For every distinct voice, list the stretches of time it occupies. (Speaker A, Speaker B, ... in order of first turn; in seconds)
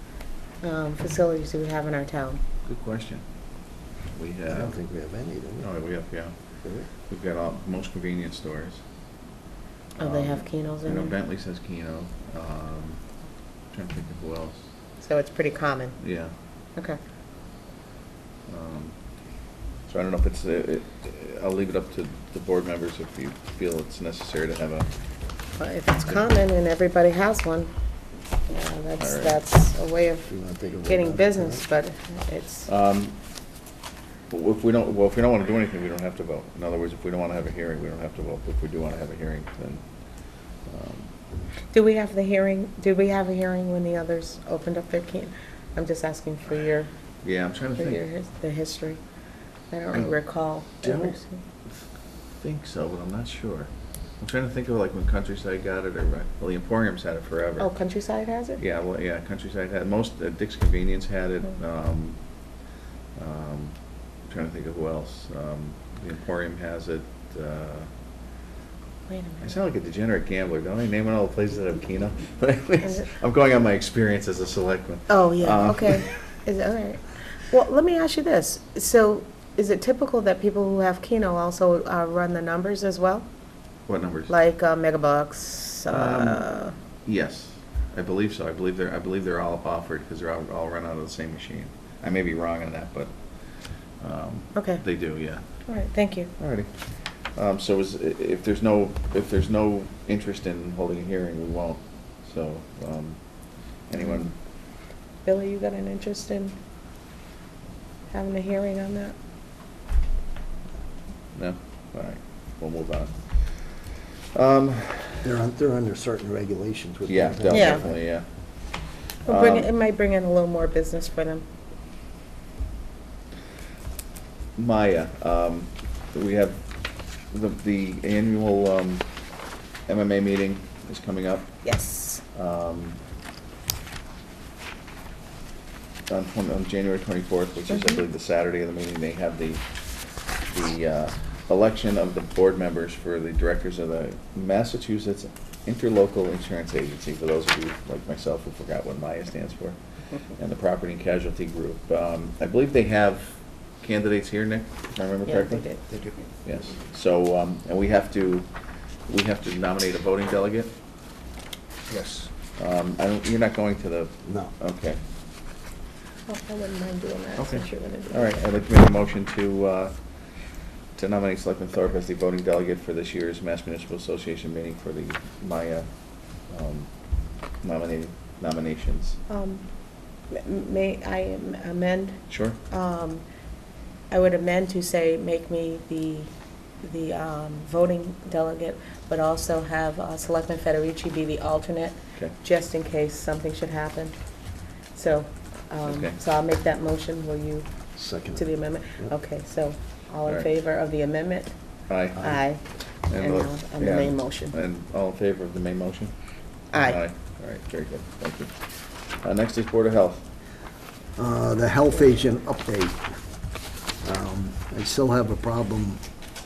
Speaker A: 0.6-2.4, 10.0-11.2, 15.0-16.0, 25.6-27.7, 28.5-30.3, 30.9-32.7, 41.7-46.9, 47.8-49.0, 49.7-51.4, 57.6-58.6, 69.1-69.5, 75.1-83.2, 84.3-86.7, 94.5-94.8, 95.7-96.3, 105.2-106.5, 108.1-109.1, 117.5-117.8, 119.3-121.4, 131.6-132.2, 137.7-138.0, 155.2-155.9, 166.3-168.4, 179.3-179.6, 180.3-183.2, 184.1-186.3, 186.8-194.1, 194.9-197.7, 198.3-201.5, 202.2-202.6, 203.1-204.5, 206.7-207.0
Speaker B: 2.6-3.2, 4.1-4.8, 5.6-6.3, 7.1-8.8, 10.0-13.0, 13.7-14.6, 16.0-16.3, 18.5-18.9, 19.9-24.9, 29.0-29.4, 32.7-33.1, 34.3-39.8, 40.7-41.1, 47.2-48.0, 50.8-51.8, 52.4-57.7, 58.6-62.2, 63.2-63.7, 64.2-67.9, 69.4-76.1, 83.9-84.3, 85.9-86.5, 87.0-93.1, 94.0-95.4, 96.4-96.7, 97.3-103.2, 103.9-104.3, 111.3-115.3, 117.1-118.2, 119.3-119.7, 124.6-126.6, 127.3-129.1, 129.9-131.5, 132.3-133.0, 136.1-139.6, 140.4-149.8, 150.3-155.7, 156.4-158.5, 159.1-160.7, 162.6-165.0, 167.4-169.9, 170.9-175.8, 176.5-176.9, 177.6-179.2, 182.3-182.6, 195.8-196.2, 201.9-202.4, 203.1-206.1, 206.7-210.2
Speaker C: 4.5-5.7, 30.3-31.6, 115.2-118.0, 155.9-156.2, 161.9-162.3, 197.9-199.1, 211.2-213.1, 214.0-216.0